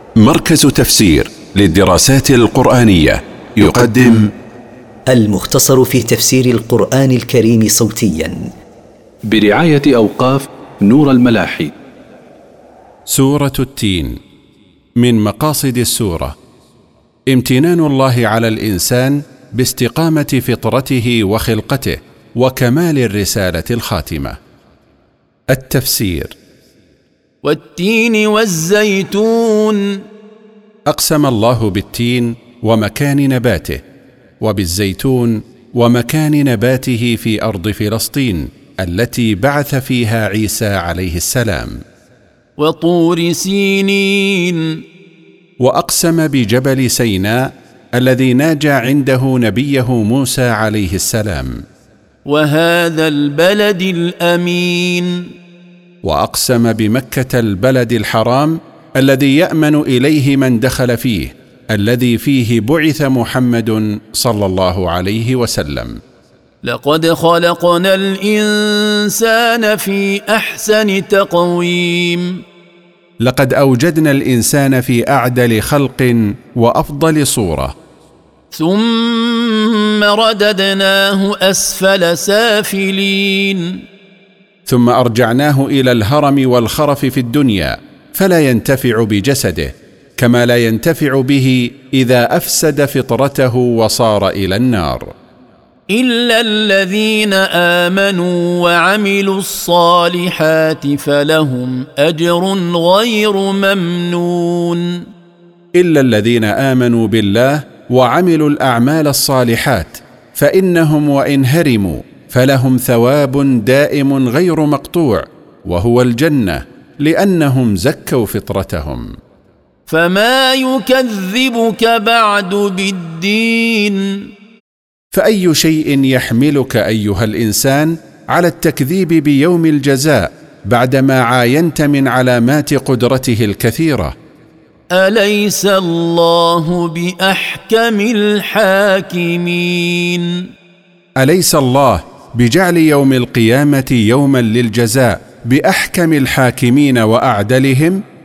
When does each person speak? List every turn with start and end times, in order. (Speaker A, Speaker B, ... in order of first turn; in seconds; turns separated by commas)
Speaker A: 0.2-4.3, Speaker B: 5.1-8.5, Speaker C: 9.3-11.7, Speaker A: 13.1-14.2, Speaker A: 15.0-16.3, Speaker A: 17.3-24.4, Speaker A: 25.5-26.3, Speaker D: 27.4-30.0, Speaker A: 30.9-33.8, Speaker A: 34.4-41.8, Speaker D: 42.6-44.8, Speaker A: 45.6-51.6, Speaker D: 52.2-55.3, Speaker A: 56.0-66.0, Speaker D: 66.6-72.4, Speaker A: 73.2-77.7, Speaker D: 78.5-83.8, Speaker A: 84.7-95.1, Speaker D: 95.9-105.1, Speaker A: 105.8-119.1, Speaker D: 119.9-124.3, Speaker A: 125.1-134.1, Speaker D: 134.9-140.5, Speaker A: 141.2-148.0